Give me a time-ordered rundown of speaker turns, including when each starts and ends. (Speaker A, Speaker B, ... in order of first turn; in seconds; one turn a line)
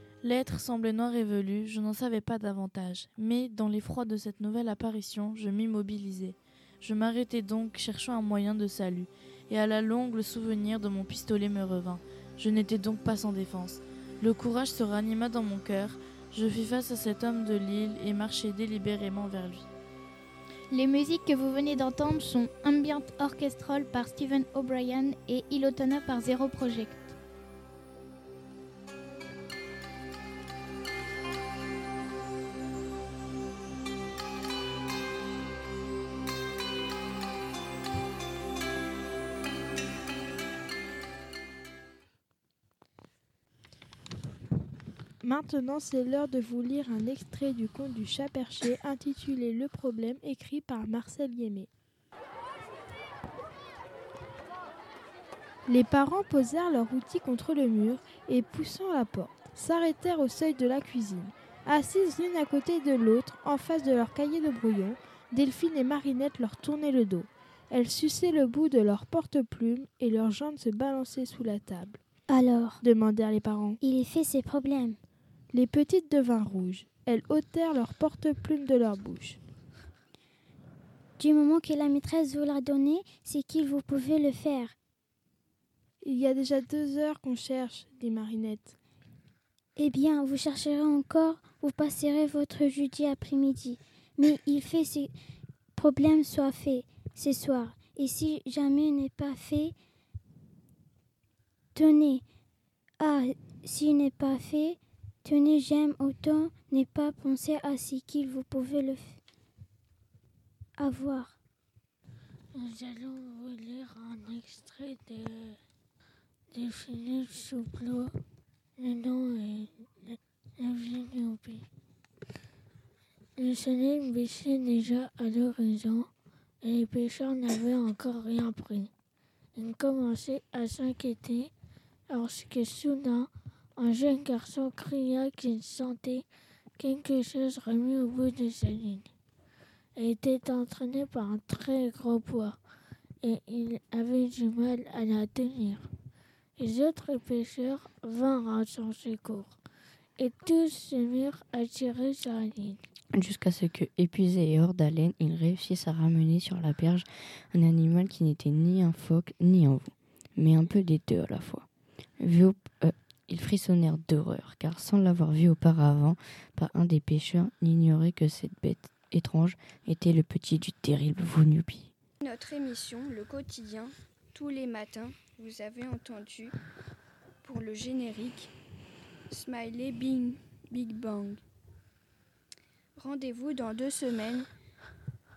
Speaker A: 0.2-19.7
Speaker B: 20.7-27.2
Speaker C: 45.2-51.7
Speaker C: 55.7-72.0
Speaker D: 72.3-72.8
Speaker C: 72.8-73.8
Speaker D: 73.8-75.0
Speaker C: 75.5-79.4
Speaker D: 81.2-84.8
Speaker C: 86.0-88.8
Speaker D: 89.8-95.1
Speaker D: 95.8-99.8
Speaker D: 101.8-102.2
Speaker D: 103.0-109.2
Speaker D: 110.8-111.4
Speaker E: 112.6-115.5
Speaker E: 116.5-118.1
Speaker E: 118.8-119.7
Speaker E: 120.6-121.6
Speaker E: 123.4-126.1
Speaker E: 126.6-128.9
Speaker E: 129.6-131.5
Speaker E: 132.1-133.3
Speaker E: 133.8-136.2
Speaker E: 136.8-139.0
Speaker E: 140.0-142.6
Speaker E: 143.2-145.8
Speaker E: 146.6-149.5
Speaker E: 150.2-152.8
Speaker F: 153.1-161.7
Speaker F: 162.2-171.9
Speaker G: 172.2-176.6
Speaker G: 177.4-178.5
Speaker G: 179.3-181.4
Speaker G: 183.0-184.5